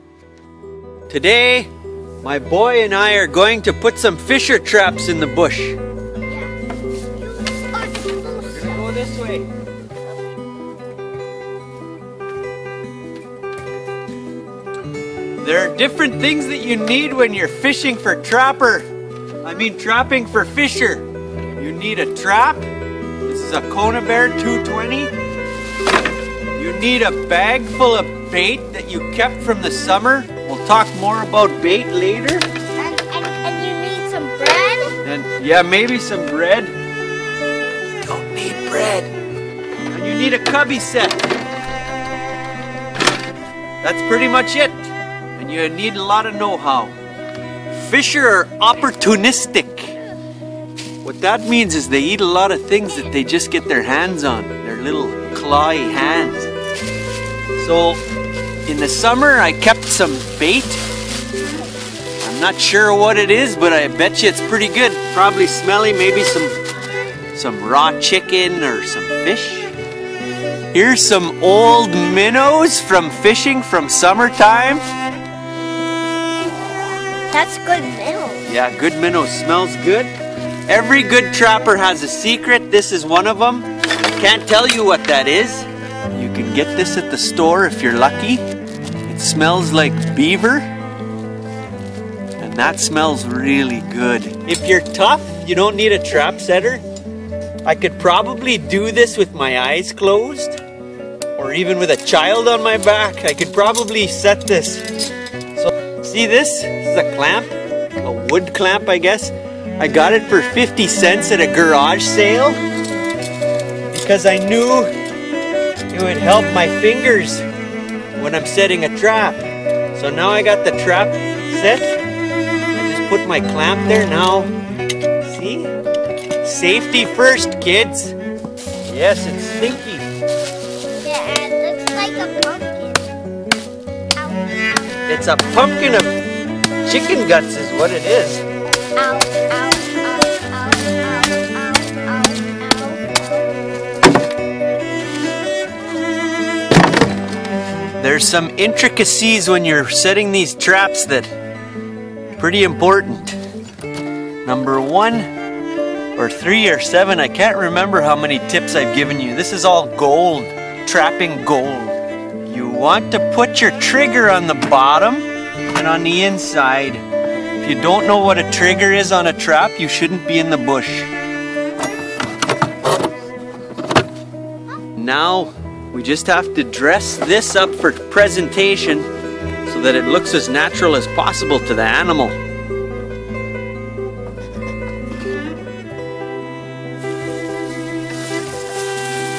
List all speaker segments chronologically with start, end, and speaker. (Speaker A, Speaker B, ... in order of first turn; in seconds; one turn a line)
Speaker A: 1.1-1.7
Speaker A: 2.2-5.8
Speaker B: 7.2-8.8
Speaker A: 8.5-9.5
Speaker A: 15.4-18.9
Speaker A: 19.4-22.6
Speaker A: 23.2-25.1
Speaker A: 26.6-32.5
Speaker B: 32.8-34.9
Speaker A: 35.0-36.7
Speaker A: 38.0-39.1
Speaker A: 39.9-41.2
Speaker A: 43.8-46.9
Speaker A: 47.7-50.0
Speaker A: 51.0-56.5
Speaker A: 57.6-58.0
Speaker A: 58.7-60.8
Speaker A: 62.2-66.6
Speaker A: 67.3-69.7
Speaker A: 70.7-74.8
Speaker B: 77.3-78.5
Speaker A: 78.5-80.1
Speaker A: 80.7-88.4
Speaker A: 89.1-90.7
Speaker A: 92.4-96.8
Speaker A: 97.6-100.6
Speaker A: 101.3-104.9
Speaker A: 105.6-112.6
Speaker A: 113.9-114.9
Speaker A: 115.9-117.4
Speaker A: 118.2-119.4
Speaker A: 119.9-122.0
Speaker A: 122.7-124.5
Speaker A: 125.2-125.7
Speaker A: 126.4-128.2
Speaker A: 128.9-130.1
Speaker B: 131.0-133.1
Speaker B: 134.2-134.9
Speaker A: 135.1-136.2
Speaker A: 136.8-138.4
Speaker B: 139.0-143.5
Speaker A: 148.0-151.3
Speaker A: 152.4-153.4
Speaker A: 154.4-155.3
Speaker A: 156.2-167.0
Speaker A: 167.6-171.1
Speaker A: 175.0-179.1
Speaker A: 179.7-182.4